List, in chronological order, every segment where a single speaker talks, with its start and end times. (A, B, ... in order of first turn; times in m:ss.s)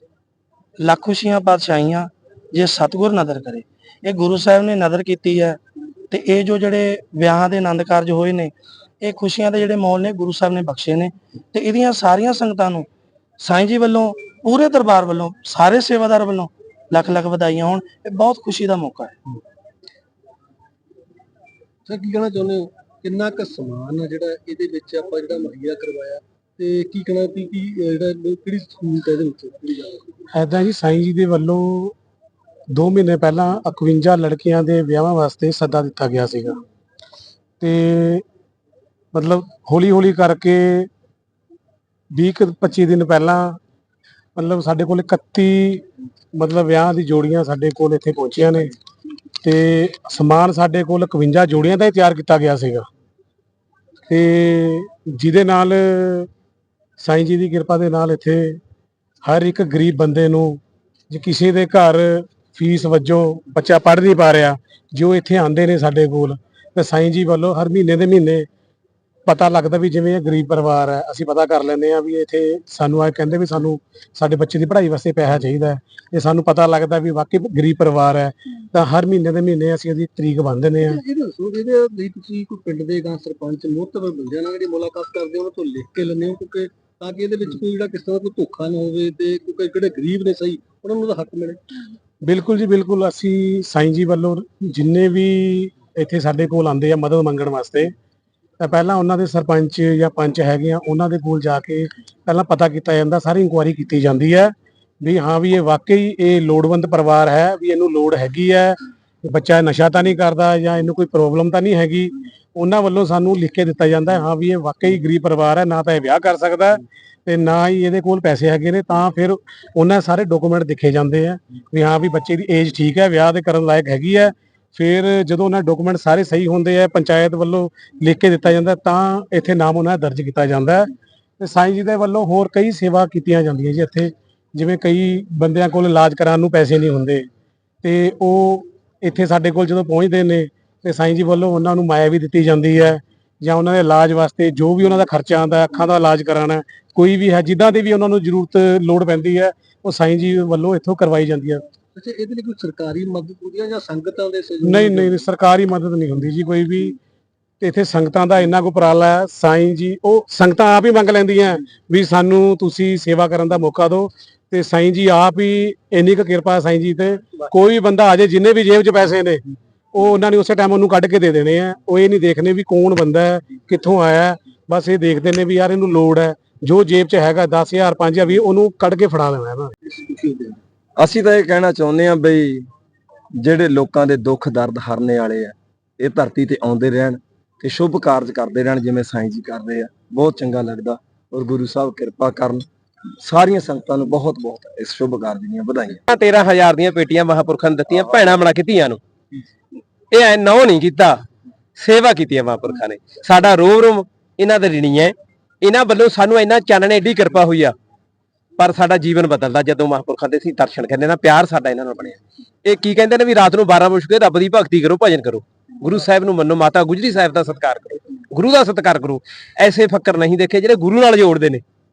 0:00.8-0:05.6 A
0:06.1-0:12.9 A
0:13.4-0:19.1 A
0:21.9-0:30.1 B
0:30.3-0:31.9 C
0:32.7-0:36.6 C
0:37.6-0:38.2 C
0:39.1-0:40.9 C
0:42.1-0:43.6 C
0:44.4-0:45.8 C
0:46.4-0:48.7 C
0:49.4-0:52.9 C
0:54.1-0:56.3 C
0:57.0-0:58.6 C
0:59.2-1:08.5 C
1:09.3-1:21.0 C
1:20.8-1:31.6 B
1:32.2-1:37.9 C
1:38.6-2:10.9 C
2:11.4-2:17.3 C
2:17.8-2:31.6 C
2:32.0-2:35.3 B
2:34.6-2:37.0 C
2:37.6-2:49.4 C
2:49.9-2:59.7 C
2:59.9-3:00.6 B
3:01.0-3:02.6 D
3:03.4-3:12.7 D
3:13.2-3:16.0 D
3:16.1-3:19.0 E
3:20.1-3:21.2 E
3:21.8-3:27.8 E
3:28.6-3:41.6 E